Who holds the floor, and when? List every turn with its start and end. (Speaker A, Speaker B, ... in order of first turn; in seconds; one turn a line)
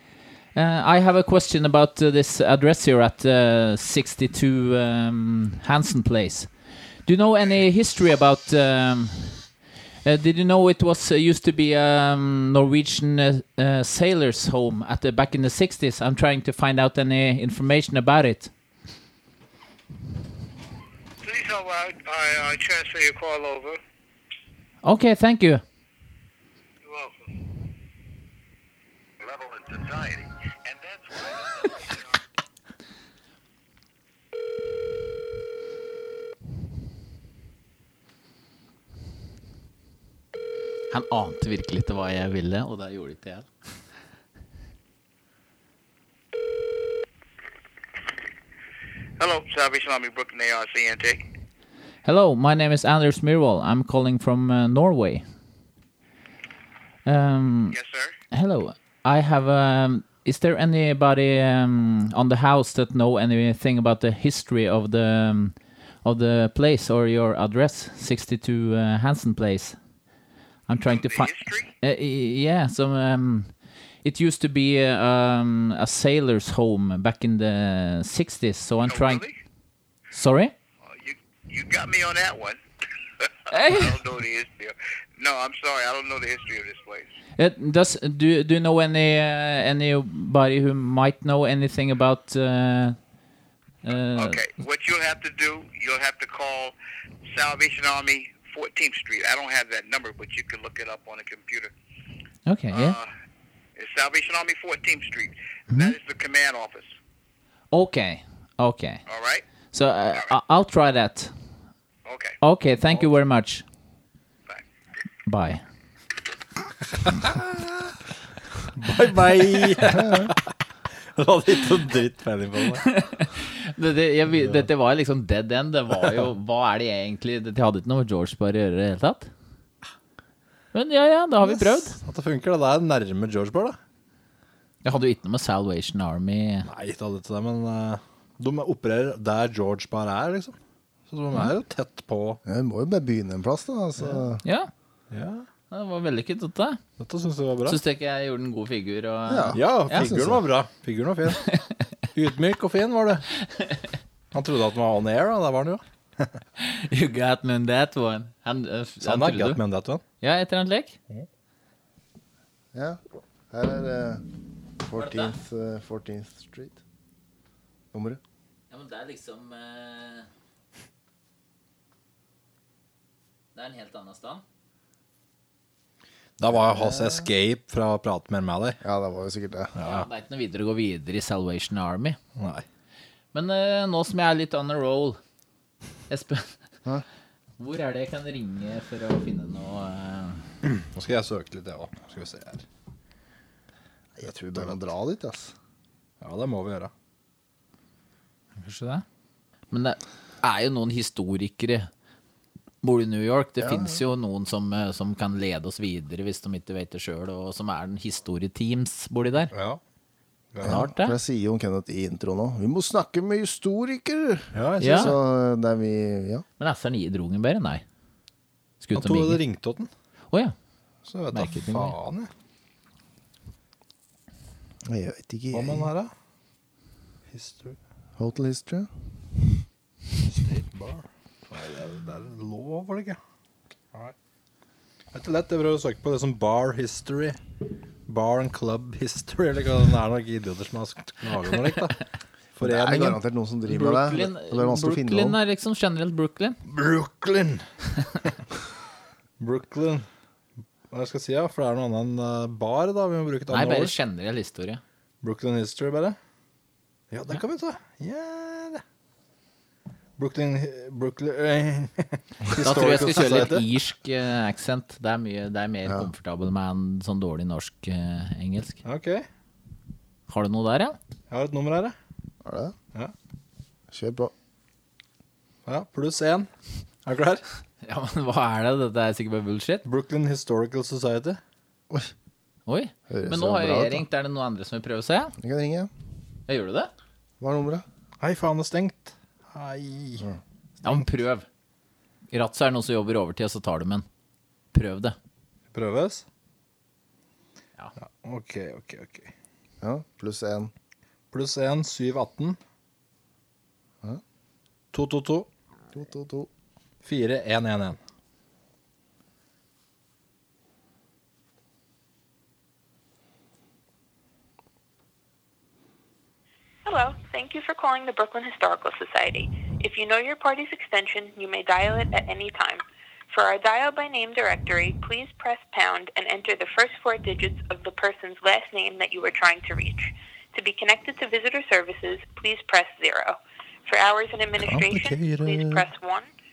Speaker A: 0.6-6.5
Speaker A: 7.1-9.5
Speaker A: 10.1-18.5
Speaker B: 21.2-23.7
Speaker A: 24.8-25.6
Speaker B: 26.9-27.1
Speaker B: 29.3-30.0
Speaker B: 30.7-31.3
Speaker A: 40.9-43.5
Speaker B: 49.2-51.2
Speaker A: 52.0-55.2
Speaker A: 57.1-57.8
Speaker B: 57.7-58.1
Speaker A: 58.3-69.8
Speaker A: 70.7-73.5
Speaker B: 70.9-71.7
Speaker A: 74.0-79.3
Speaker B: 78.9-79.3
Speaker A: 80.1-80.5
Speaker B: 80.8-82.6
Speaker A: 83.5-84.0
Speaker B: 83.5-87.1
Speaker A: 87.4-93.0
Speaker A: 93.8-94.4
Speaker B: 94.2-96.8
Speaker B: 97.3-101.7
Speaker A: 102.5-103.0
Speaker B: 102.7-103.1
Speaker B: 103.8-106.9
Speaker A: 107.7-109.0
Speaker B: 109.1-109.4
Speaker A: 109.7-111.3
Speaker B: 112.1-112.4
Speaker A: 112.4-113.6
Speaker A: 115.3-115.6
Speaker C: 117.1-117.7
Speaker C: 118.8-120.5
Speaker D: 120.0-120.3
Speaker C: 121.2-122.9
Speaker A: 122.8-129.3
Speaker A: 130.7-132.0
Speaker C: 132.0-133.8
Speaker A: 134.8-136.7
Speaker C: 136.7-140.6
Speaker C: 141.1-142.4
Speaker D: 142.4-144.4
Speaker A: 144.4-144.7
Speaker C: 145.1-145.5
Speaker A: 145.7-146.8
Speaker C: 147.0-147.8
Speaker A: 147.7-150.1
Speaker D: 149.3-150.4
Speaker C: 149.5-151.4
Speaker A: 151.5-151.7
Speaker C: 152.1-153.2
Speaker A: 153.4-153.8
Speaker C: 154.3-156.3
Speaker A: 156.6-159.6
Speaker C: 159.0-160.0
Speaker A: 160.2-161.0
Speaker D: 162.7-163.0
Speaker D: 163.5-164.2
Speaker D: 164.8-166.8
Speaker A: 165.0-165.4
Speaker D: 167.9-168.2
Speaker A: 168.7-170.3
Speaker A: 173.6-174.4
Speaker C: 176.4-178.8
Speaker D: 176.5-177.2
Speaker D: 178.8-179.7
Speaker C: 179.8-180.1
Speaker A: 179.8-182.2
Speaker C: 182.4-182.6
Speaker A: 183.3-185.2
Speaker A: 186.1-186.6
Speaker A: 187.6-190.5
Speaker C: 190.6-192.6
Speaker D: 194.2-195.5
Speaker C: 194.3-194.7
Speaker C: 196.2-196.9
Speaker A: 198.6-199.1
Speaker A: 199.7-201.9
Speaker A: 202.8-209.5
Speaker D: 203.6-204.0
Speaker C: 209.5-209.8
Speaker D: 210.6-216.4
Speaker A: 210.6-211.2
Speaker C: 214.5-215.2
Speaker A: 214.8-215.2
Speaker A: 216.6-217.8
Speaker A: 218.8-219.4
Speaker C: 218.9-219.9
Speaker A: 220.3-220.6
Speaker C: 221.1-222.3
Speaker A: 221.3-221.9
Speaker D: 224.9-225.9
Speaker C: 225.5-226.1
Speaker C: 227.3-227.8
Speaker D: 228.2-228.9
Speaker C: 230.3-233.2
Speaker C: 235.1-237.4
Speaker C: 238.1-242.0
Speaker C: 242.6-243.2
Speaker D: 242.6-245.4
Speaker A: 243.7-246.6
Speaker C: 246.7-247.7
Speaker C: 249.4-250.1
Speaker C: 250.9-253.9
Speaker A: 253.5-254.8
Speaker C: 255.2-256.2
Speaker C: 257.1-258.8
Speaker C: 260.2-263.6
Speaker A: 262.6-268.8
Speaker C: 268.8-269.2
Speaker A: 270.3-271.0
Speaker C: 271.3-271.9
Speaker D: 272.4-272.8
Speaker D: 273.9-274.3
Speaker C: 275.7-276.5
Speaker C: 277.1-277.4
Speaker A: 277.8-279.8
Speaker C: 279.9-281.4
Speaker A: 282.7-285.4
Speaker D: 283.1-284.1
Speaker D: 285.4-285.9
Speaker A: 286.5-286.9
Speaker D: 287.4-287.9
Speaker C: 288.2-290.3
Speaker A: 290.8-291.5
Speaker A: 292.3-294.1
Speaker A: 294.7-295.2
Speaker C: 295.7-296.2
Speaker C: 298.2-299.3
Speaker D: 299.8-300.7
Speaker C: 301.3-302.6
Speaker C: 304.9-305.5
Speaker D: 305.9-306.5
Speaker C: 307.0-308.0
Speaker E: 316.9-336.3
Speaker C: 334.6-335.9